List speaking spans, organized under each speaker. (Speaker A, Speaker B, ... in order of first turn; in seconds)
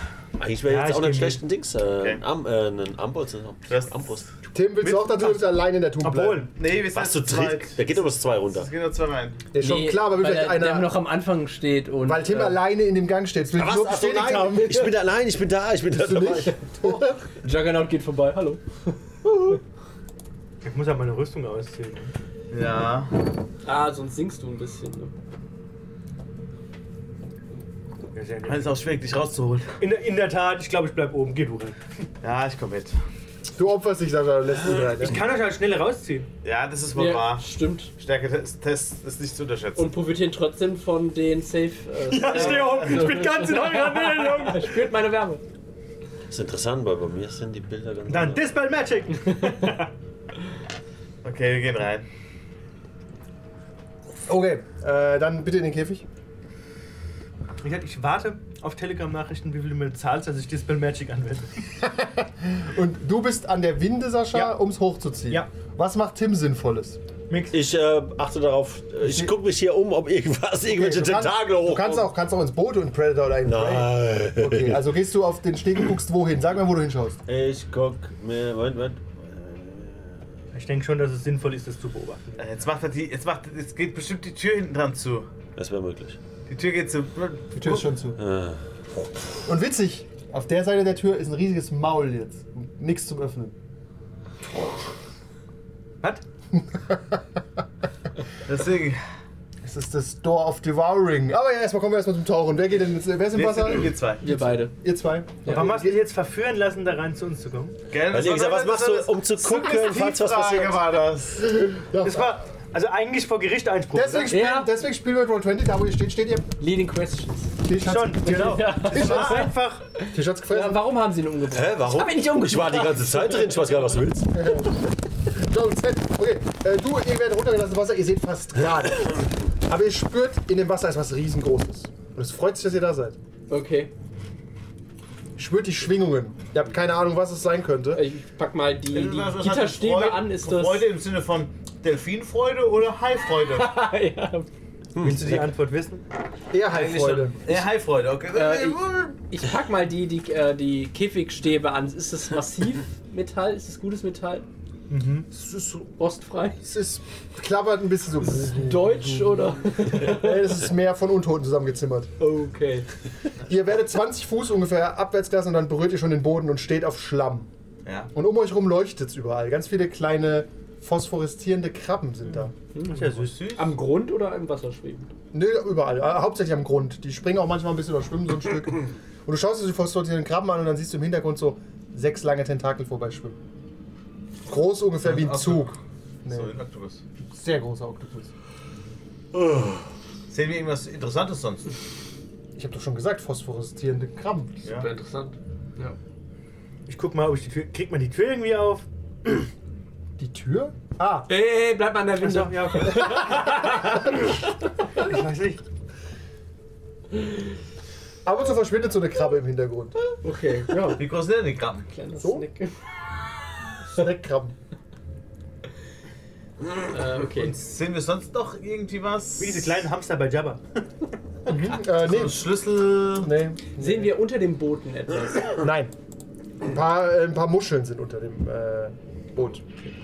Speaker A: 0.4-4.3, 6.9-8.7, 13.5-16.6, 46.3-48.5, 67.5-72.1, 73.4-74.9, 77.2-80.3, 85.5-86.2, 88.2-88.6, 108.1-110.8, 121.5-124.6, 144.9-145.5, 189.3-189.8
Speaker B: 0.7-1.4, 4.8-6.5, 20.6-22.1, 28.1-28.6, 29.8-31.8, 34.8-36.3, 42.1-44.8, 48.1-49.9, 57.6-61.7, 67.3-67.6, 80.5-82.5, 105.5-107.8, 112.0-114.4, 117.8-120.0, 145.0-146.0, 146.7-147.2, 154.9-155.3, 172.9-173.3, 196.9-198.8, 202.2-203.5, 204.9-205.6, 219.4-220.8
Speaker C: 3.7-4.2, 6.5-8.0, 8.5-9.4, 22.5-23.1, 28.5-29.8, 32.2-33.0, 36.4-39.9, 42.3-43.0, 51.2-52.0, 82.4-85.3, 86.5-87.9, 98.5-99.0, 103.3-104.2, 107.9-111.7, 138.9-143.8, 147.4-149.2, 167.8-168.1, 173.0-173.7, 185.0-185.7, 186.3-187.0, 190.3-191.6, 210.9-211.9, 217.2-219.8, 221.8-223.3
Speaker D: 4.5-6.5, 9.5-11.0, 12.0-14.9, 15.9-17.2, 33.5-35.3, 54.2-56.0, 61.8-67.0, 69.0-69.3, 70.6-77.2, 87.5-88.2, 89.4-93.5, 96.7-97.0, 99.6-106.0, 111.4-112.3, 113.9-116.5, 117.6-119.5, 120.1-120.9, 124.3-133.2, 135.3-138.0, 146.5-147.4, 155.4-155.8, 156.6-162.1, 163.4-167.5, 168.1-172.5, 175.3-183.4, 184.4-186.5, 187.3-188.3, 192.5-194.5, 200.2-201.3, 208.2-210.0, 212.2-212.4, 213.9-214.5, 221.5-222.5, 223.2-224.1, 225.6-225.9, 226.6-229.6
Speaker E: 9.6-12.6, 17.3-18.6, 23.6-25.1, 36.9-37.9, 39.8-45.4, 104.2-104.7, 114.3-114.7, 116.6-117.5, 118.2-123.6, 133.5-133.9, 137.9-140.8, 143.4-144.5, 146.7-147.6, 148.3-154.5, 155.8-156.6, 158.3-160.6, 162.2-162.9, 172.7-175.1, 194.6-196.0, 201.3-204.3, 210.2-211.1, 211.9-212.7, 216.9-217.6, 223.8-225.6